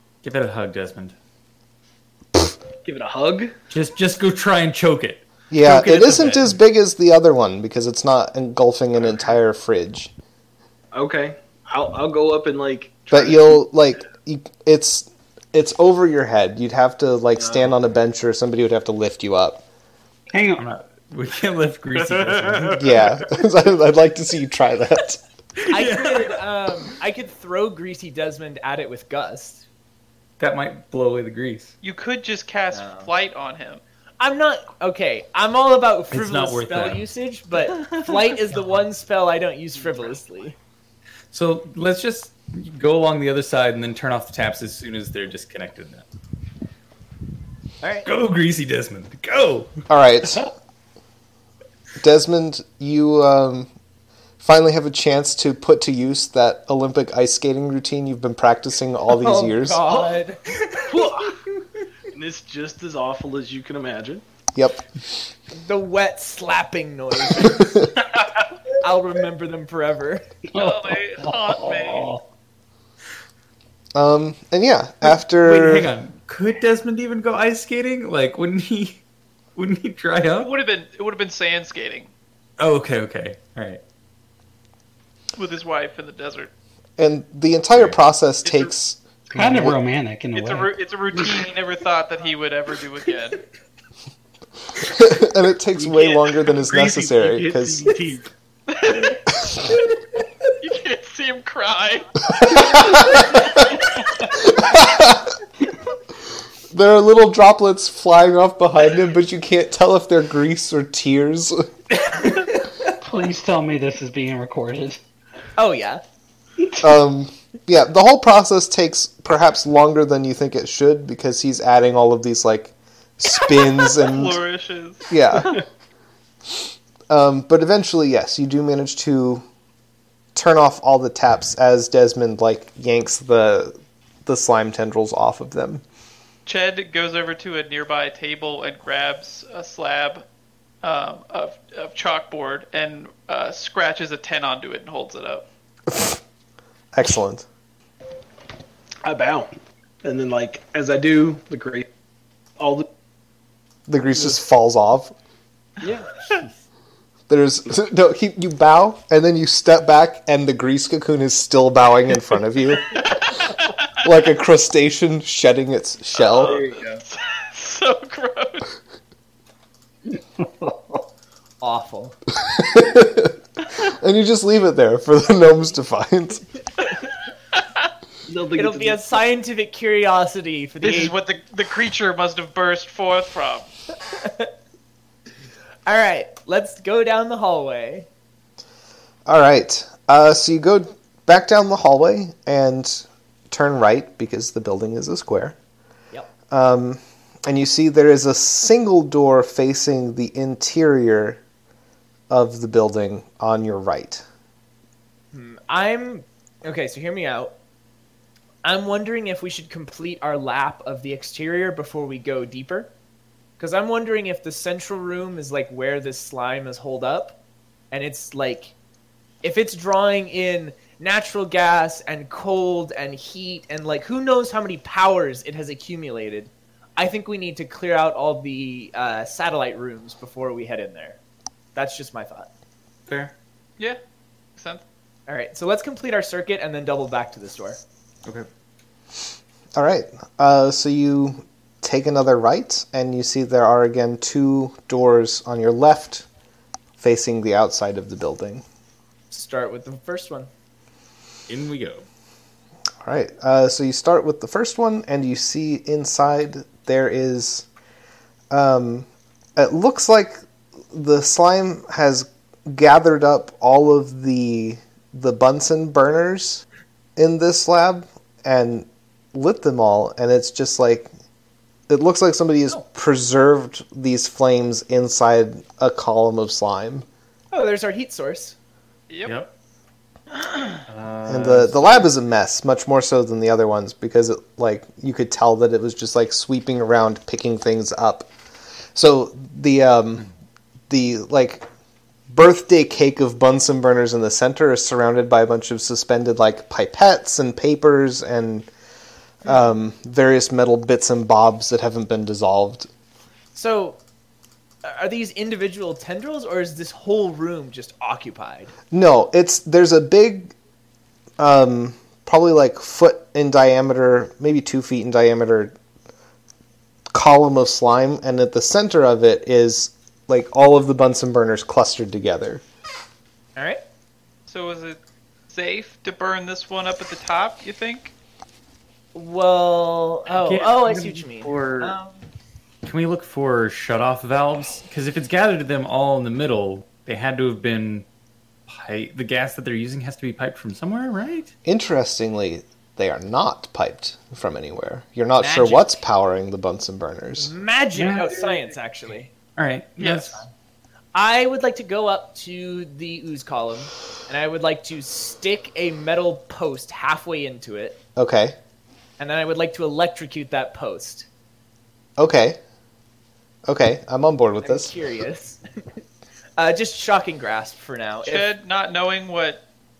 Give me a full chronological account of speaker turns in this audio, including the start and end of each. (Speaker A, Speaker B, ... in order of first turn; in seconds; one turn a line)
Speaker A: 0.2-1.1
Speaker B: 2.8-3.5
Speaker A: 3.7-6.5
Speaker C: 5.5-10.1
Speaker B: 10.9-13.6
Speaker C: 13.1-19.6
Speaker B: 17.4-17.7
Speaker D: 20.3-20.6
Speaker A: 20.5-23.1
Speaker C: 22.7-25.2
Speaker A: 25.6-26.4
Speaker E: 25.7-29.6
Speaker A: 30.4-31.7
Speaker F: 31.8-33.8
Speaker E: 32.7-33.1
Speaker E: 34.2-40.6
Speaker A: 36.1-37.0
Speaker A: 37.7-38.3
Speaker A: 41.3-46.1
Speaker E: 47.8-48.1
Speaker A: 48.0-49.7
Speaker C: 49.9-50.5
Speaker C: 52.0-53.7
Speaker C: 54.4-59.9
Speaker E: 59.1-60.5
Speaker B: 60.9-61.4
Speaker B: 62.1-64.2
Speaker C: 64.5-64.9
Speaker E: 65.5-67.7
Speaker C: 67.4-67.9
Speaker E: 68.7-70.2
Speaker D: 70.5-72.2
Speaker F: 70.5-72.1
Speaker C: 74.0-75.9
Speaker A: 75.0-79.0
Speaker A: 79.6-80.5
Speaker F: 80.4-82.1
Speaker A: 82.6-83.8
Speaker F: 85.4-86.5
Speaker C: 87.0-89.8
Speaker F: 88.4-88.7
Speaker D: 89.3-91.4
Speaker F: 90.3-93.4
Speaker C: 94.8-98.0
Speaker B: 95.8-98.3
Speaker F: 98.7-99.3
Speaker F: 100.6-102.8
Speaker C: 102.4-105.3
Speaker C: 106.7-111.7
Speaker D: 113.0-115.0
Speaker E: 115.6-116.0
Speaker C: 116.8-124.4
Speaker F: 123.6-125.6
Speaker C: 125.1-125.6
Speaker C: 127.1-129.4
Speaker C: 130.3-135.8
Speaker F: 136.5-140.2
Speaker F: 140.8-145.4
Speaker C: 145.9-146.2
Speaker C: 146.9-147.4
Speaker B: 149.0-151.8
Speaker B: 152.6-152.9
Speaker C: 153.9-155.1
Speaker B: 155.8-156.1
Speaker C: 157.3-166.6
Speaker F: 162.9-163.8
Speaker F: 166.2-168.7
Speaker B: 166.3-167.0
Speaker D: 170.1-171.0
Speaker E: 171.6-172.2
Speaker C: 172.4-176.5
Speaker B: 178.3-179.0
Speaker E: 178.6-181.2
Speaker F: 180.8-183.7
Speaker E: 184.1-184.5
Speaker E: 185.9-188.1
Speaker C: 189.3-195.6
Speaker C: 196.5-201.4
Speaker C: 202.3-204.2
Speaker E: 205.3-207.5
Speaker E: 208.6-212.9
Speaker E: 213.6-217.4
Speaker E: 217.9-218.7
Speaker E: 219.4-231.2
Speaker E: 231.8-232.5
Speaker A: 233.1-233.3
Speaker F: 234.6-234.8
Speaker E: 235.3-237.8
Speaker C: 239.8-246.3
Speaker C: 247.0-248.7
Speaker E: 249.3-250.5
Speaker A: 251.5-252.1
Speaker C: 253.0-257.7
Speaker C: 258.5-266.6
Speaker C: 267.2-271.1
Speaker C: 271.9-277.1
Speaker E: 277.5-278.6
Speaker A: 279.2-279.5
Speaker A: 280.9-282.0
Speaker C: 281.3-288.3
Speaker C: 288.9-290.3
Speaker C: 290.9-291.7
Speaker C: 292.3-298.7
Speaker C: 299.4-302.9
Speaker E: 303.5-304.0
Speaker E: 304.8-308.7
Speaker C: 308.9-310.5
Speaker C: 311.4-315.8
Speaker C: 317.1-322.6
Speaker E: 323.6-323.8
Speaker F: 324.5-325.0
Speaker F: 325.5-328.1
Speaker E: 329.1-332.3
Speaker A: 330.3-332.0
Speaker A: 332.8-338.1
Speaker A: 338.7-341.5
Speaker C: 341.6-347.5
Speaker E: 345.4-346.0
Speaker E: 347.4-349.3
Speaker A: 347.9-348.6
Speaker A: 349.6-350.5
Speaker F: 350.0-350.4
Speaker E: 351.1-358.0
Speaker C: 358.2-358.6
Speaker E: 359.2-361.3
Speaker C: 362.2-362.6
Speaker C: 363.7-364.9
Speaker E: 364.6-365.6
Speaker E: 366.6-368.5
Speaker F: 368.2-369.6